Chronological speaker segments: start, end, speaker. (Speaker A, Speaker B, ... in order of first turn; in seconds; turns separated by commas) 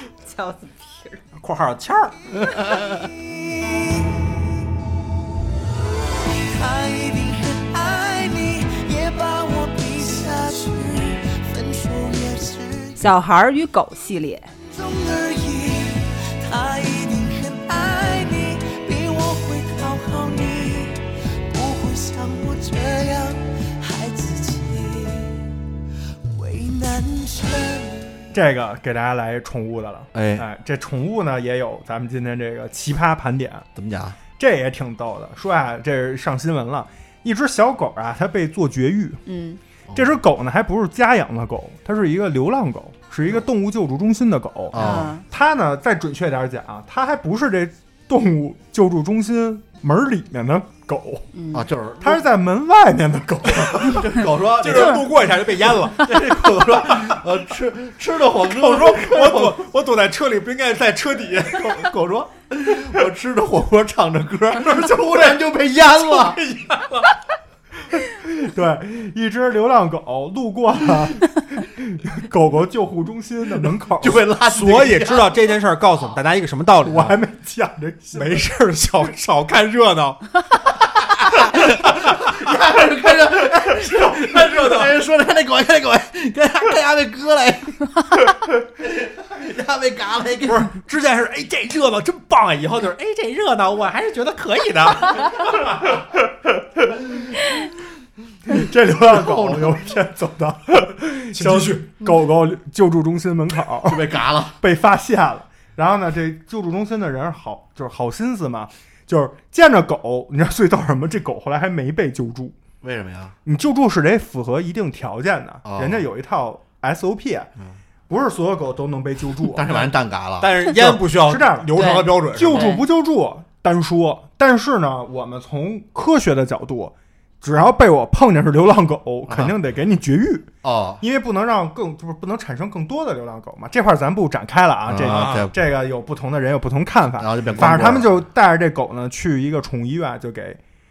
Speaker A: 0.2-1.2, Speaker B: 1.4-2.1, Speaker C: 2.3-3.1, Speaker D: 3.5-4.1, Speaker D: 6.4-13.1, Speaker A: 13.0-14.5, Speaker D: 14.7-25.5, Speaker D: 26.3-28.1, Speaker E: 28.3-33.6, Speaker C: 30.1-30.4, Speaker C: 33.8-34.2, Speaker E: 34.4-39.2, Speaker A: 39.3-39.6, Speaker E: 39.9-51.3, Speaker C: 44.7-45.1, Speaker A: 44.7-45.2, Speaker A: 51.3-51.6, Speaker C: 51.5-52.2, Speaker E: 52.0-54.1, Speaker C: 53.5-55.1, Speaker B: 54.5-56.1, Speaker C: 56.0-59.6, Speaker B: 58.5-61.9, Speaker C: 61.5-66.4, Speaker B: 64.7-67.1, Speaker E: 67.9-74.2, Speaker C: 74.0-75.4, Speaker B: 74.5-77.1, Speaker E: 76.9-78.5, Speaker B: 78.1-80.3, Speaker C: 81.2-87.8, Speaker B: 83.8-84.9, Speaker C: 88.8-90.7, Speaker B: 90.4-95.6, Speaker E: 98.5-104.1, Speaker C: 99.0-99.8, Speaker B: 101.3-101.9, Speaker C: 103.8-104.6, Speaker E: 104.6-112.5, Speaker C: 112.8-113.3, Speaker E: 113.4-117.5, Speaker C: 115.6-116.1, Speaker E: 118.1-119.7, Speaker C: 119.4-120.7, Speaker B: 120.4-122.8, Speaker E: 120.7-130.5, Speaker A: 121.7-122.8, Speaker C: 129.3-129.5, Speaker C: 130.6-131.0, Speaker E: 131.0-140.6, Speaker C: 134.9-135.5, Speaker B: 135.1-135.5, Speaker C: 137.2-138.2